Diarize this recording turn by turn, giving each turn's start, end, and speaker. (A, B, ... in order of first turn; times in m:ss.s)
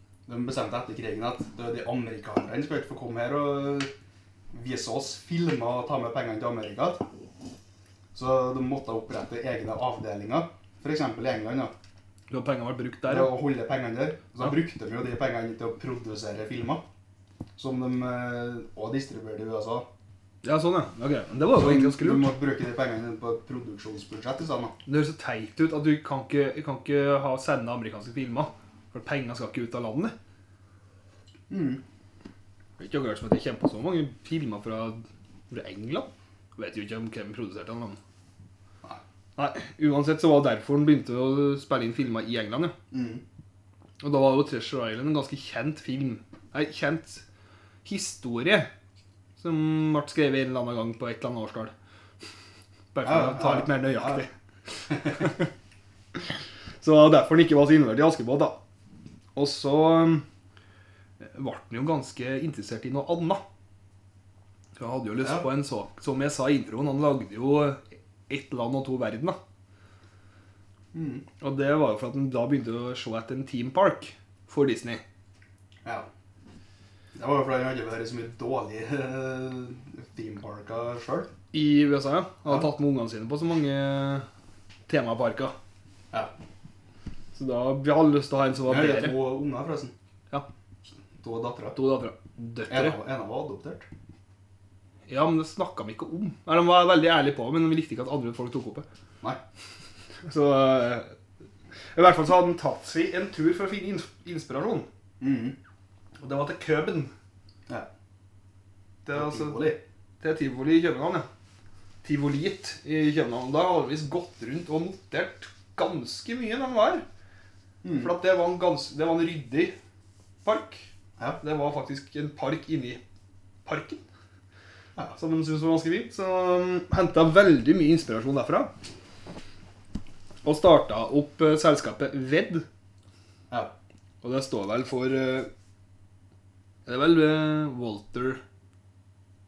0:00.3-0:03.9 A
0:04.5-0:07.0 A
0:08.1-0:11.7 A
0:12.3-0:13.4 B
0:13.1-0:16.8 A
0:17.6-0:19.9 A
0:20.4-0:22.3 B
0:21.5-0:24.8 A
0:24.9-0:30.1 B
0:31.5-0:31.8 A
0:32.8-0:38.0 B
0:39.4-0:42.8 B
0:42.9-0:43.2 A
0:44.0-0:47.2 B
0:47.8-0:48.7 B
0:49.4-0:51.7 B
0:52.9-0:55.5 B
0:53.0-0:54.2 A
0:56.1-0:58.6 B
0:59.4-1:00.2 B
1:01.2-1:03.4 B
1:04.8-1:09.4 B
1:05.2-1:05.5 A
1:10.9-1:11.3 A
1:11.4-1:15.0 B
1:17.1-1:21.3 A
1:21.5-1:24.3 B
1:24.9-1:25.6 B
1:27.4-1:29.2 B
1:28.7-1:29.9 A
1:31.2-1:31.8 A
1:31.8-1:33.0 B
1:32.7-1:33.9 A
1:35.1-1:38.9 B
1:40.3-1:41.1 B
1:41.9-1:44.9 B
1:45.2-1:45.6 A
1:46.2-1:47.1 B
1:49.1-1:49.7 B
1:49.1-1:49.8 A
1:50.2-1:51.3 B
1:52.0-1:57.0 B
1:57.8-1:58.1 A
1:58.0-1:59.8 B
2:00.4-2:00.9 B
2:01.4-2:03.0 B
2:03.6-2:04.0 B
2:05.1-2:08.7 B
2:10.4-2:12.6 B
2:14.2-2:15.5 B
2:16.9-2:18.4 B